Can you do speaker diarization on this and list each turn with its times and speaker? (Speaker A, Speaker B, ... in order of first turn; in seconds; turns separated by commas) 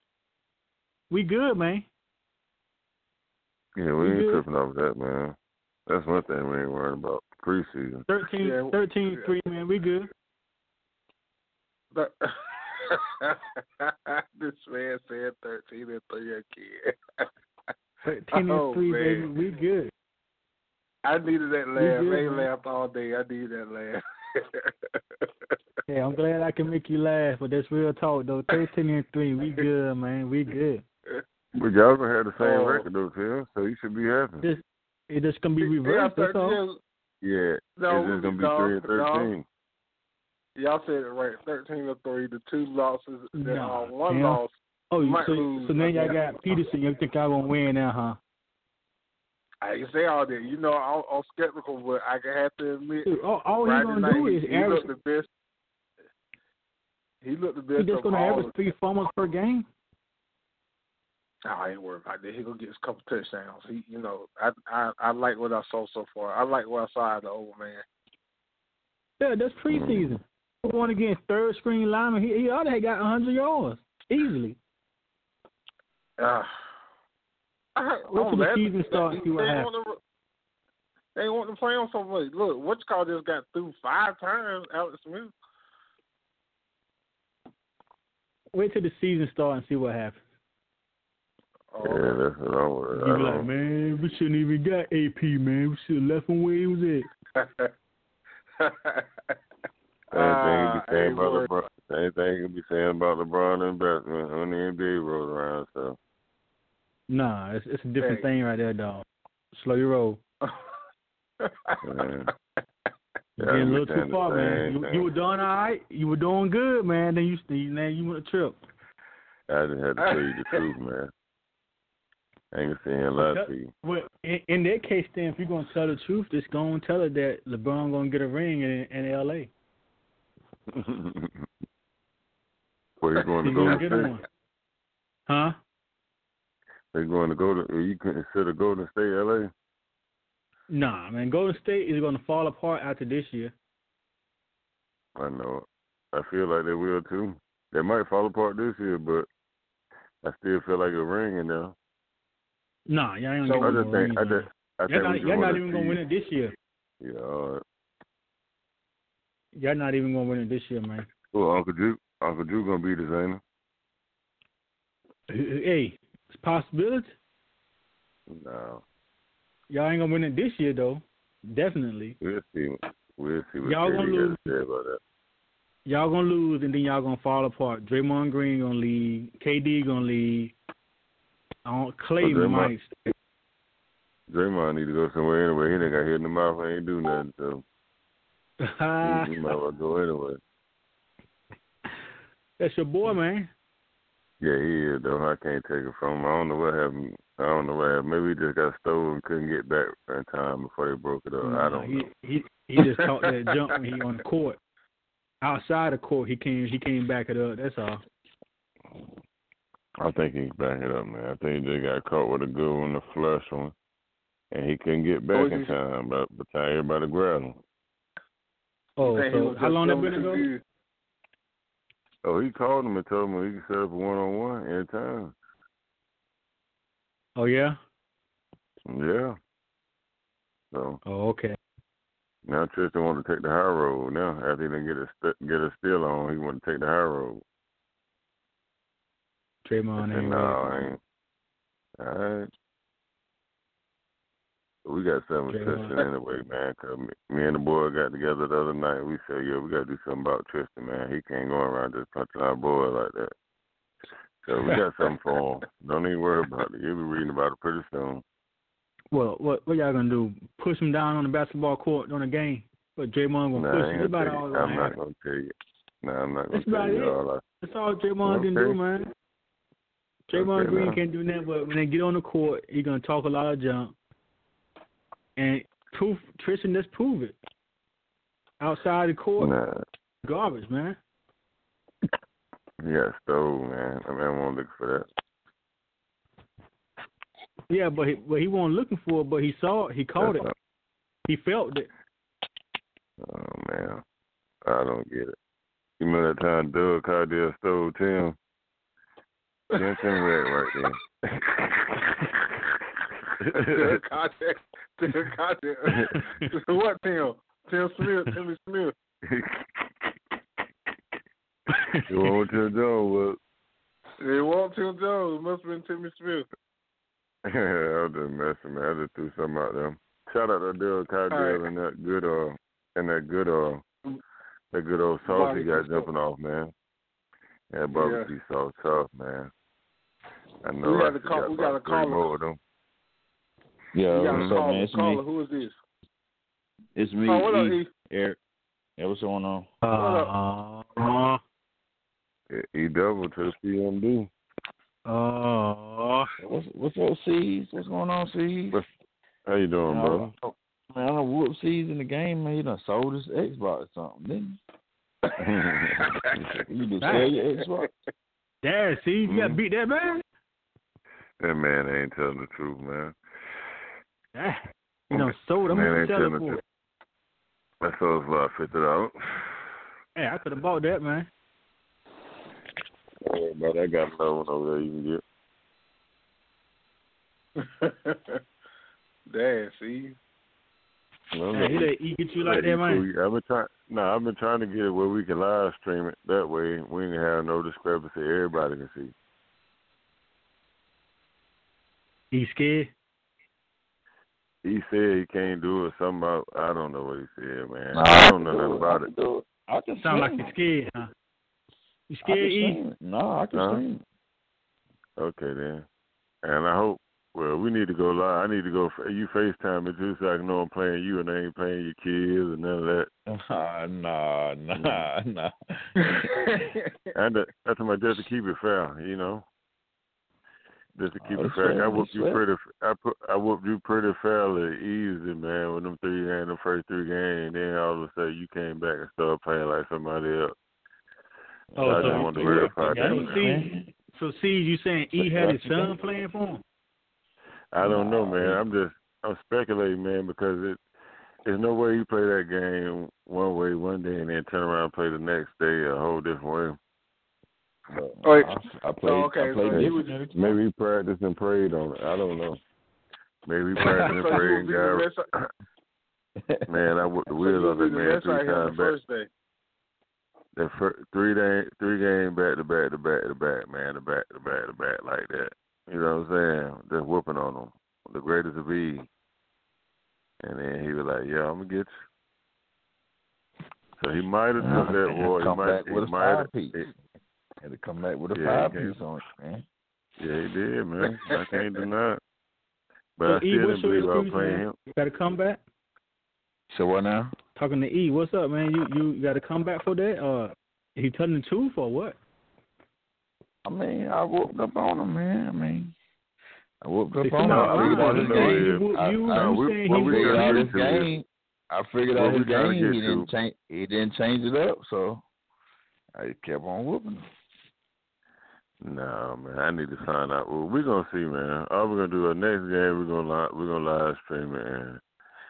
Speaker A: 1.1-1.9, Speaker B: 3.8-5.3, Speaker A: 4.0-4.4, Speaker B: 5.9-8.1, Speaker A: 8.1-10.1, Speaker C: 8.4-9.2, Speaker C: 11.9-17.2, Speaker A: 18.0-19.9, Speaker C: 18.3-19.3, Speaker C: 21.0-25.2, Speaker A: 21.8-22.5, Speaker A: 25.9-30.8, Speaker B: 31.6-34.4, Speaker C: 32.4-32.8, Speaker A: 34.4-36.6, Speaker C: 35.6-36.8, Speaker B: 37.2-39.4, Speaker C: 37.8-39.3, Speaker C: 40.6-46.2, Speaker A: 43.3-44.4, Speaker A: 44.9-48.2, Speaker C: 49.6-53.1, Speaker A: 53.0-54.9, Speaker C: 53.6-55.3, Speaker C: 57.2-58.5, Speaker A: 57.8-59.6, Speaker C: 61.5-67.8, Speaker A: 69.2-74.6, Speaker B: 69.7-70.1, Speaker C: 76.2-76.5, Speaker C: 77.8-80.0, Speaker A: 78.1-79.7, Speaker C: 81.2-85.3, Speaker A: 88.5-90.2, Speaker C: 91.7-92.2, Speaker B: 91.8-93.5, Speaker A: 92.9-97.0, Speaker C: 97.3-97.7, Speaker C: 98.6-99.3, Speaker C: 100.1-101.5, Speaker B: 100.1-106.0, Speaker A: 107.1-110.2, Speaker C: 108.0-108.2, Speaker C: 111.4-111.8, Speaker B: 111.8-112.3, Speaker B: 113.4-115.0, Speaker A: 113.4-118.6, Speaker B: 119.5-121.1, Speaker C: 120.1-120.6, Speaker B: 122.5-123.7, Speaker A: 123.2-129.5, Speaker B: 130.7-131.4, Speaker B: 133.0-134.1, Speaker A: 133.4-134.2, Speaker A: 135.3-135.6, Speaker B: 136.9-139.5, Speaker A: 140.7-143.5, Speaker B: 145.2-149.3, Speaker B: 150.2-151.7, Speaker A: 152.9-156.5, Speaker B: 153.5-156.0, Speaker B: 157.0-157.6, Speaker A: 159.5-161.1, Speaker B: 161.3-163.4, Speaker A: 165.3-167.2, Speaker B: 168.3-168.8, Speaker A: 169.7-172.2, Speaker B: 172.2-175.0, Speaker A: 173.6-174.4, Speaker A: 175.8-180.5, Speaker A: 181.6-183.1, Speaker B: 182.2-182.7, Speaker B: 184.3-187.6, Speaker A: 188.6-189.5, Speaker B: 189.0-190.4, Speaker A: 192.6-193.5, Speaker B: 194.4-202.1, Speaker A: 201.4-204.6, Speaker A: 205.4-208.0, Speaker B: 210.0-213.7, Speaker B: 214.5-217.6, Speaker C: 215.3-215.7, Speaker A: 219.0-220.5, Speaker C: 219.0-220.6, Speaker B: 222.2-225.3, Speaker A: 227.4-227.8, Speaker B: 228.8-229.3, Speaker B: 230.7-231.0, Speaker A: 231.1-231.6, Speaker B: 232.4-237.4, Speaker A: 239.6-240.8, Speaker B: 240.0-241.0, Speaker B: 242.0-242.5, Speaker B: 244.8-253.3, Speaker A: 245.5-246.0, Speaker B: 254.4-258.2, Speaker A: 259.1-264.9, Speaker B: 263.5-265.5, Speaker B: 266.0-267.4, Speaker A: 266.5-269.1, Speaker B: 268.2-268.8, Speaker A: 270.3-273.9, Speaker B: 270.3-271.0, Speaker A: 275.4-277.4, Speaker A: 278.6-279.5, Speaker B: 279.4-279.8, Speaker A: 280.2-281.0, Speaker B: 282.8-285.1, Speaker A: 287.7-290.5, Speaker B: 290.2-290.5, Speaker A: 291.3-291.9, Speaker B: 293.2-294.0, Speaker B: 294.6-295.3, Speaker B: 296.0-298.4, Speaker C: 299.7-300.0, Speaker B: 299.7-302.0, Speaker B: 303.4-304.0, Speaker C: 303.5-308.9, Speaker A: 306.1-306.4, Speaker B: 309.3-309.6, Speaker A: 311.7-312.1, Speaker B: 312.1-313.4, Speaker C: 314.2-316.5, Speaker B: 317.4-323.8, Speaker C: 321.3-321.6, Speaker B: 324.7-326.7, Speaker C: 325.2-326.1, Speaker B: 327.7-329.5, Speaker C: 327.9-328.3, Speaker B: 330.6-332.6, Speaker C: 330.8-332.2, Speaker D: 333.9-335.2, Speaker C: 334.1-335.8, Speaker B: 334.3-334.6, Speaker D: 336.9-338.4, Speaker C: 337.3-337.9, Speaker D: 339.0-339.7, Speaker A: 339.8-341.4, Speaker C: 339.9-340.3, Speaker B: 342.5-344.3, Speaker A: 345.1-346.3, Speaker D: 346.4-348.8, Speaker B: 349.4-350.3, Speaker D: 349.9-354.6, Speaker B: 355.4-356.6, Speaker D: 356.7-357.9, Speaker A: 357.0-357.3, Speaker A: 358.6-360.2, Speaker B: 359.3-359.6, Speaker B: 361.4-363.1, Speaker A: 364.3-366.6, Speaker B: 365.1-366.6, Speaker B: 367.8-369.7, Speaker A: 370.1-371.3, Speaker B: 373.2-375.2, Speaker C: 377.6-378.4, Speaker C: 379.3-380.1, Speaker B: 381.3-381.9, Speaker A: 381.5-383.0, Speaker B: 382.4-389.1, Speaker A: 392.3-392.9, Speaker B: 394.6-399.1, Speaker D: 397.9-400.4, Speaker A: 400.0-401.1, Speaker A: 402.1-402.8, Speaker D: 402.2-404.0, Speaker B: 403.5-403.8, Speaker B: 405.2-405.8, Speaker B: 406.4-413.1, Speaker D: 413.3-416.1, Speaker B: 414.7-415.1, Speaker C: 416.0-416.8, Speaker B: 417.1-419.4, Speaker B: 420.9-430.5, Speaker D: 421.2-422.4, Speaker D: 431.7-433.9, Speaker A: 431.8-436.6, Speaker B: 431.8-433.4, Speaker D: 435.3-435.9, Speaker B: 437.7-440.8, Speaker D: 437.8-438.6, Speaker B: 441.4-446.8, Speaker D: 447.9-450.6, Speaker C: 448.2-450.3, Speaker B: 449.7-452.6, Speaker B: 453.5-455.5, Speaker D: 453.8-454.4, Speaker C: 453.9-455.2, Speaker B: 456.7-458.9, Speaker C: 457.3-459.3, Speaker B: 460.6-469.1, Speaker B: 470.4-471.9, Speaker B: 474.0-476.9, Speaker D: 474.6-476.9, Speaker D: 477.6-479.6, Speaker B: 478.3-479.0, Speaker B: 480.2-482.2, Speaker B: 483.2-484.8, Speaker A: 483.2-485.6, Speaker D: 486.7-487.3, Speaker A: 487.5-492.2, Speaker D: 493.6-495.9, Speaker D: 496.8-505.2, Speaker A: 497.2-500.7, Speaker B: 497.4-501.1, Speaker B: 502.1-503.3, Speaker D: 506.1-507.2, Speaker B: 508.8-515.0